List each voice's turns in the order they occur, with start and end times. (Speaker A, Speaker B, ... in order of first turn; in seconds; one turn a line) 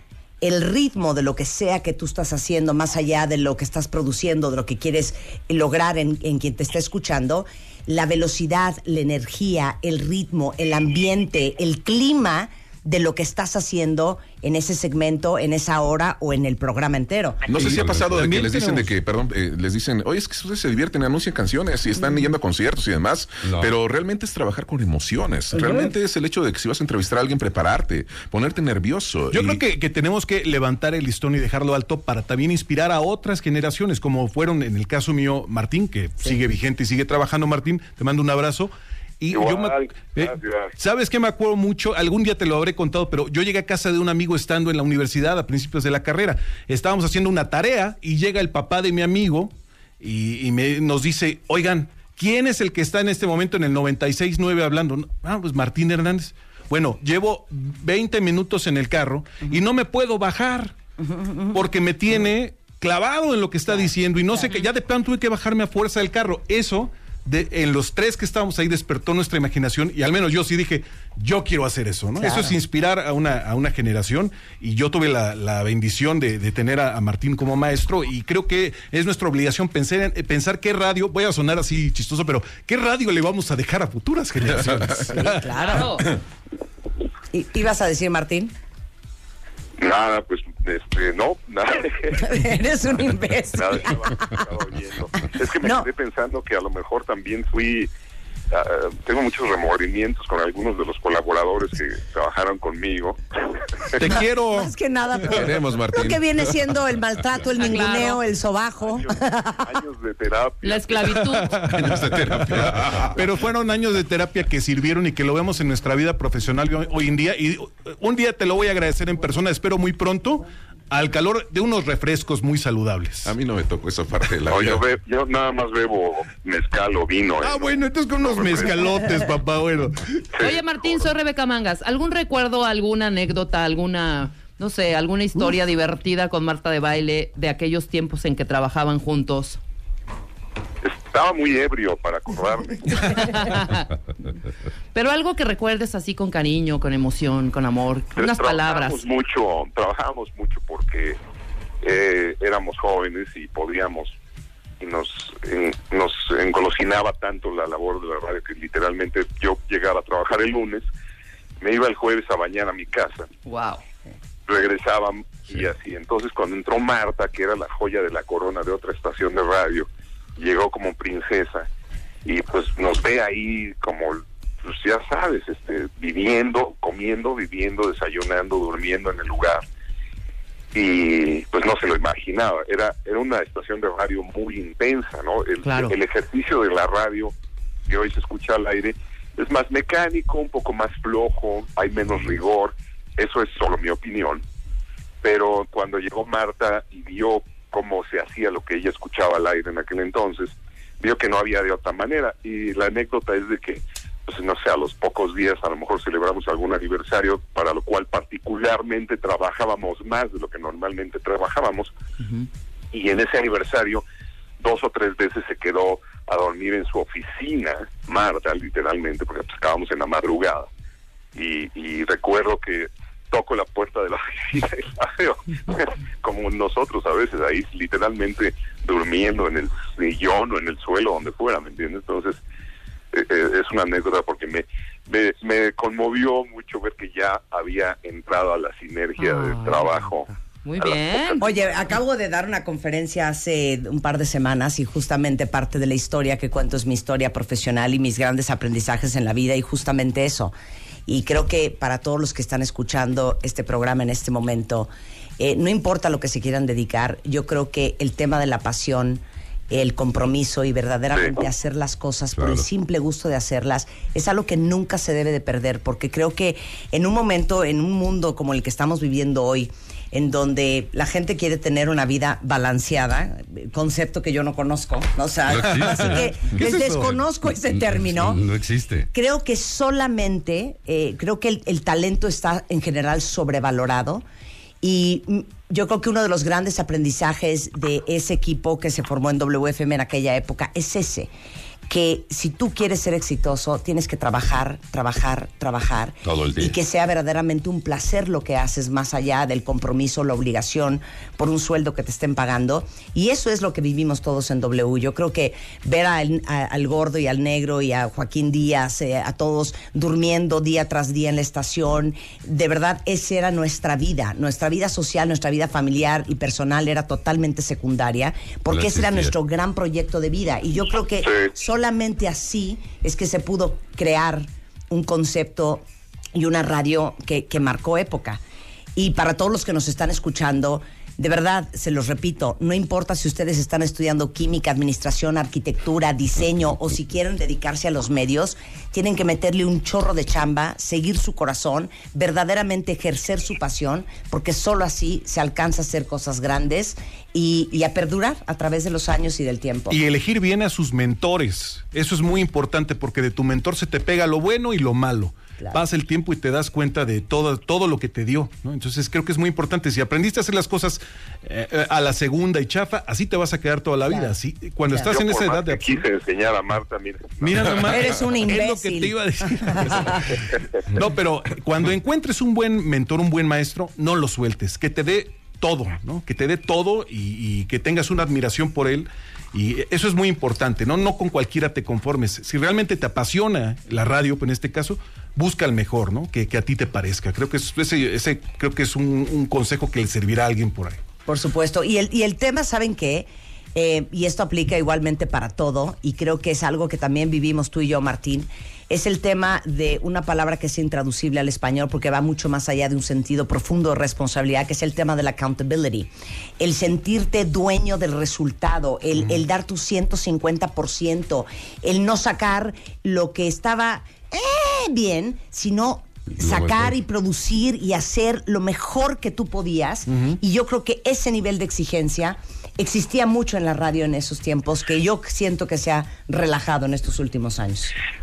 Speaker A: 0.4-17.4
Speaker B: 17.5-29.6
Speaker C: 17.6-18.9
Speaker D: 23.4-23.7
Speaker C: 29.3-60.7
Speaker E: 39.3-40.7
Speaker A: 61.0-61.6
Speaker C: 61.5-85.4
Speaker A: 72.2-72.5
Speaker B: 84.5-85.0
Speaker A: 85.1-85.9
Speaker F: 85.6-86.1
Speaker A: 87.3-88.5
Speaker E: 89.8-92.4
Speaker A: 92.2-94.5
Speaker E: 93.5-97.9
Speaker A: 95.6-95.9
Speaker E: 98.5-103.2
Speaker C: 104.0-104.7
Speaker A: 104.0-109.8
Speaker B: 105.3-106.4
Speaker F: 107.5-108.2
Speaker E: 108.8-111.2
Speaker F: 110.6-111.6
Speaker C: 111.5-123.3
Speaker B: 111.7-113.1
Speaker B: 123.2-124.8
Speaker E: 124.5-129.0
Speaker C: 127.4-130.2
Speaker E: 130.4-131.1
Speaker F: 130.4-139.6
Speaker E: 140.8-143.4
Speaker F: 143.1-143.9
Speaker F: 144.9-149.1
Speaker E: 148.2-151.2
Speaker E: 151.8-154.2
Speaker E: 154.8-160.8
Speaker E: 161.6-163.3
Speaker F: 163.4-163.8
Speaker E: 164.5-171.7
Speaker E: 172.2-179.6
Speaker E: 180.7-187.3
Speaker F: 185.6-185.9
Speaker E: 187.9-194.4
Speaker E: 195.2-211.9
Speaker F: 212.2-212.5
Speaker E: 212.9-214.0
Speaker E: 214.6-220.7
Speaker E: 221.3-232.4
Speaker E: 233.1-240.3
Speaker F: 239.2-241.5
Speaker E: 240.8-241.7
Speaker A: 241.4-250.5
Speaker A: 251.1-278.4
Speaker D: 262.4-262.6
Speaker D: 275.5-276.2
Speaker C: 275.7-277.2
Speaker D: 277.7-279.1
Speaker A: 279.1-284.2
Speaker A: 284.8-291.3
Speaker A: 291.9-325.8
Speaker D: 296.2-296.7
Speaker D: 318.7-319.3
Speaker E: 321.2-321.5
Speaker A: 326.3-328.4
Speaker A: 328.9-350.0
Speaker C: 349.9-366.0
Speaker E: 365.0-367.7
Speaker C: 367.4-391.0
Speaker A: 367.8-370.2
Speaker A: 391.3-427.9
Speaker D: 416.4-416.9
Speaker C: 420.1-420.4